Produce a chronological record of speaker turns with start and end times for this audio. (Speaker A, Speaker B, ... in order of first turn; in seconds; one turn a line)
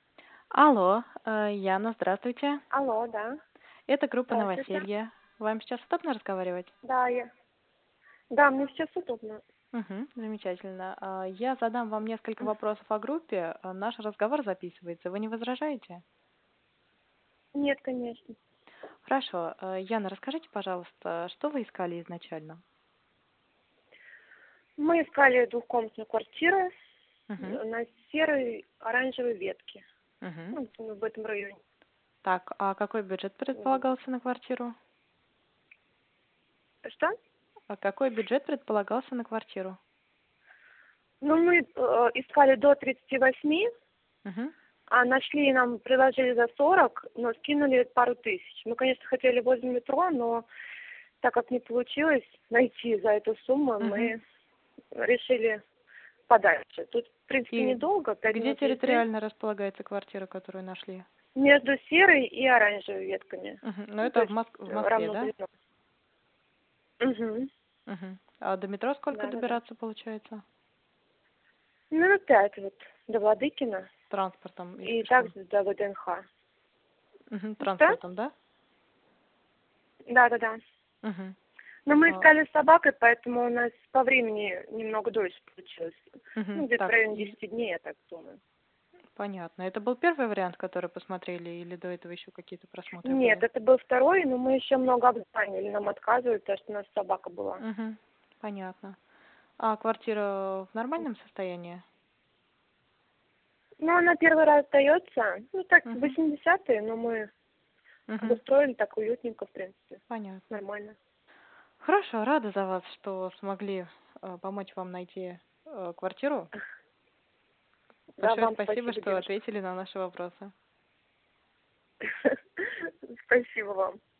Speaker A: 0.5-2.6
Speaker B: 2.7-3.4
Speaker A: 3.9-6.7
Speaker B: 4.3-4.8
Speaker B: 6.8-7.3
Speaker B: 8.3-9.4
Speaker A: 9.7-16.0
Speaker B: 17.5-18.3
Speaker A: 19.1-22.6
Speaker B: 24.8-26.7
Speaker A: 27.3-27.6
Speaker B: 27.4-29.8
Speaker A: 30.2-30.6
Speaker B: 30.5-31.6
Speaker A: 32.2-34.7
Speaker B: 33.5-33.8
Speaker B: 36.8-37.1
Speaker A: 37.7-39.8
Speaker B: 41.2-43.7
Speaker A: 44.2-44.5
Speaker B: 44.9-50.5
Speaker B: 51.2-54.2
Speaker A: 53.8-54.1
Speaker B: 54.9-55.6
Speaker B: 56.3-59.0
Speaker A: 57.5-61.0
Speaker B: 61.3-65.5
Speaker A: 63.6-65.3
Speaker B: 67.0-67.5
Speaker A: 67.9-70.4
Speaker B: 69.1-69.6
Speaker B: 71.9-73.9
Speaker A: 74.1-75.3
Speaker B: 74.8-76.2
Speaker A: 77.3-78.3
Speaker B: 77.6-78.0
Speaker B: 80.1-80.6
Speaker A: 81.0-81.3
Speaker B: 81.8-88.4
Speaker A: 86.3-87.3
Speaker A: 89.2-93.4
Speaker B: 93.0-97.6
Speaker A: 97.6-99.0
Speaker A: 99.6-101.8
Speaker B: 103.8-107.3
Speaker A: 105.9-106.2
Speaker A: 108.1-108.4
Speaker B: 108.2-111.0
Speaker A: 110.1-110.4
Speaker A: 111.8-116.5
Speaker B: 118.2-119.3
Speaker A: 118.2-120.5
Speaker B: 122.0-124.0